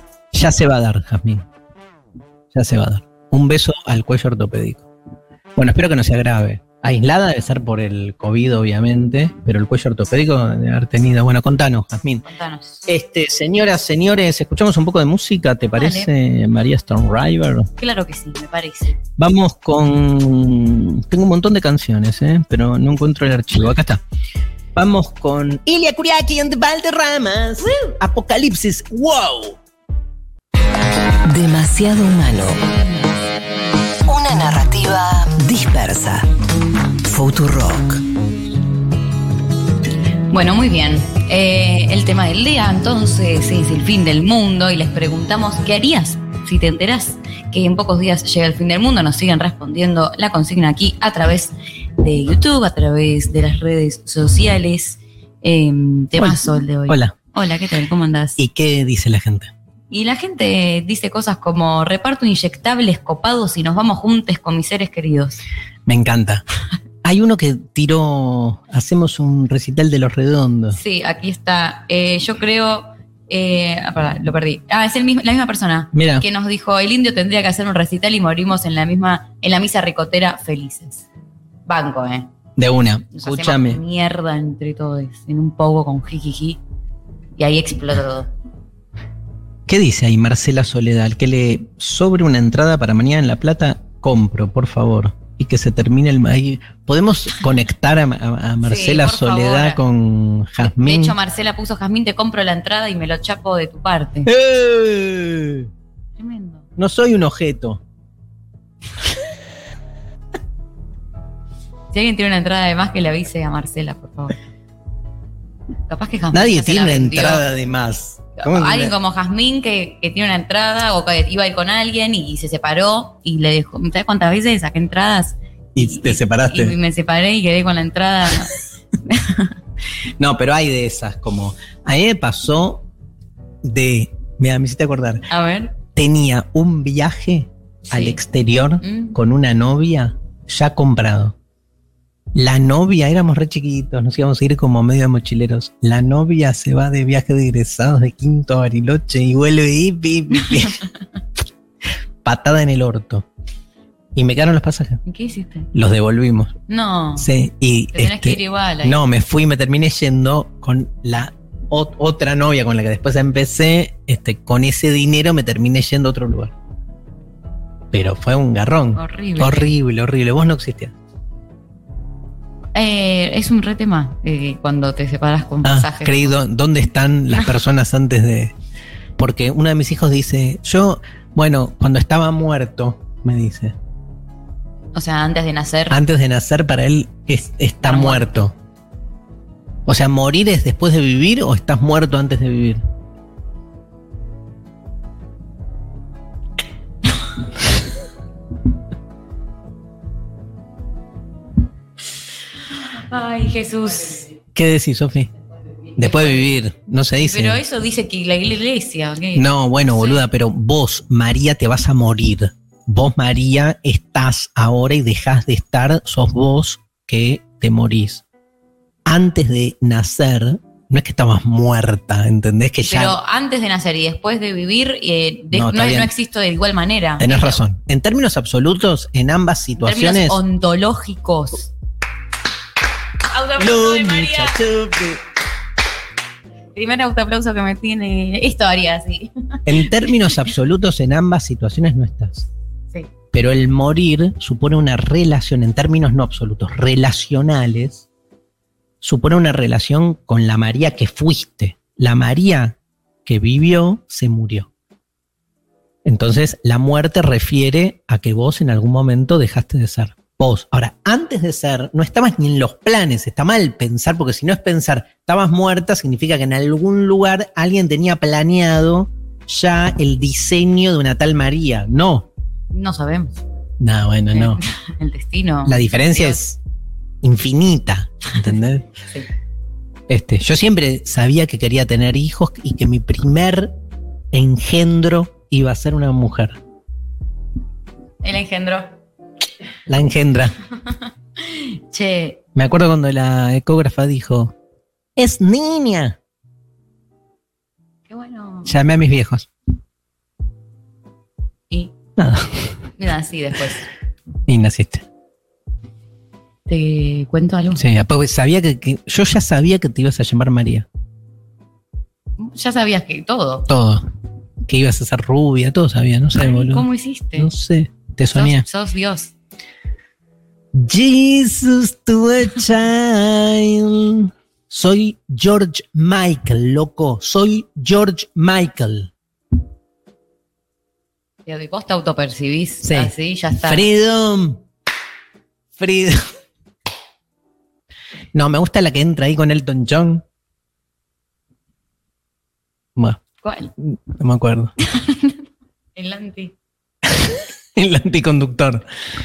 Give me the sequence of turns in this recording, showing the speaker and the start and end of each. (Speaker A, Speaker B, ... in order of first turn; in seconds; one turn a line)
Speaker A: 0.3-1.4
Speaker A: 2.5-4.9
Speaker A: 5.5-12.2
Speaker B: 12.2-12.8
Speaker A: 12.8-17.7
Speaker B: 15.8-16.1
Speaker B: 17.8-19.0
Speaker A: 19.2-24.0
Speaker A: 24.7-29.6
Speaker C: 31.3-32.6
Speaker C: 34.1-36.3
Speaker C: 37.1-38.0
Speaker B: 40.3-58.4
Speaker A: 56.2-57.1
Speaker A: 58.4-59.5
Speaker B: 59.9-65.4
Speaker A: 65.8-66.4
Speaker A: 67.0-70.8
Speaker B: 70.7-81.0
Speaker A: 75.9-76.2
Speaker B: 81.7-82.3
Speaker A: 82.6-83.8
Speaker B: 83.1-86.6
Speaker B: 87.4-88.3
Speaker A: 89.7-101.2
Speaker B: 98.6-99.8
Speaker B: 100.7-104.3
Speaker A: 104.2-105.7
Speaker B: 106.2-106.7
Speaker A: 106.8-107.8
Speaker B: 111.9-114.3
Speaker B: 115.9-117.4
Speaker A: 116.3-118.9
Speaker B: 118.4-129.5
Speaker A: 125.7-126.7
Speaker A: 130.2-132.8
Speaker A: 133.6-135.2
Speaker B: 135.3-135.7
Speaker A: 135.9-141.3
Speaker B: 137.9-138.2
Speaker B: 138.8-139.1
Speaker A: 142.3-150.8
Speaker A: 152.2-153.2
Speaker A: 154.1-155.0
Speaker B: 155.1-155.7
Speaker A: 155.7-156.5
Speaker B: 156.7-157.3
Speaker A: 157.2-166.5
Speaker B: 157.9-159.0
Speaker A: 167.9-170.9
Speaker B: 168.9-169.7
Speaker B: 172.7-176.4
Speaker A: 175.6-178.5
Speaker A: 179.2-183.8
Speaker B: 184.9-186.0
Speaker A: 185.9-188.5
Speaker B: 187.8-188.4
Speaker A: 189.8-192.8
Speaker B: 203.0-204.3
Speaker A: 204.5-205.3
Speaker A: 206.0-207.6
Speaker B: 206.0-206.4
Speaker B: 207.2-210.2
Speaker A: 209.3-218.2
Speaker A: 219.1-223.2
Speaker B: 222.8-227.6
Speaker A: 225.5-226.1
Speaker A: 227.2-230.4
Speaker B: 229.8-231.7
Speaker B: 233.3-234.6
Speaker A: 233.6-235.2
Speaker B: 236.7-239.9
Speaker A: 239.7-242.5
Speaker A: 243.3-248.0
Speaker A: 249.0-254.7
Speaker A: 256.0-272.3
Speaker B: 272.7-273.3
Speaker A: 273.8-274.6
Speaker B: 274.3-276.4
Speaker A: 275.6-276.6
Speaker A: 277.2-278.9
Speaker A: 280.1-283.7
Speaker A: 284.3-286.6
Speaker B: 288.2-288.9
Speaker A: 289.9-290.5
Speaker B: 291.4-292.4
Speaker A: 292.5-294.5
Speaker A: 295.1-296.2
Speaker B: 298.1-298.7
Speaker A: 298.6-299.5
Speaker A: 302.2-302.8
Speaker B: 303.0-303.9
Speaker A: 304.5-305.0
Speaker B: 306.7-307.8
Speaker A: 307.8-310.9
Speaker B: 312.4-313.6
Speaker A: 313.7-314.1
Speaker A: 314.6-318.6
Speaker B: 316.3-317.5
Speaker B: 318.3-319.3
Speaker A: 320.7-329.1
Speaker B: 331.4-333.8
Speaker A: 332.8-334.6
Speaker A: 335.8-336.2
Speaker A: 338.3-340.2
Speaker A: 342.9-343.2
Speaker B: 343.4-343.7
Speaker A: 343.8-344.7
Speaker B: 344.9-345.4
Speaker B: 345.9-346.5
Speaker A: 347.1-348.8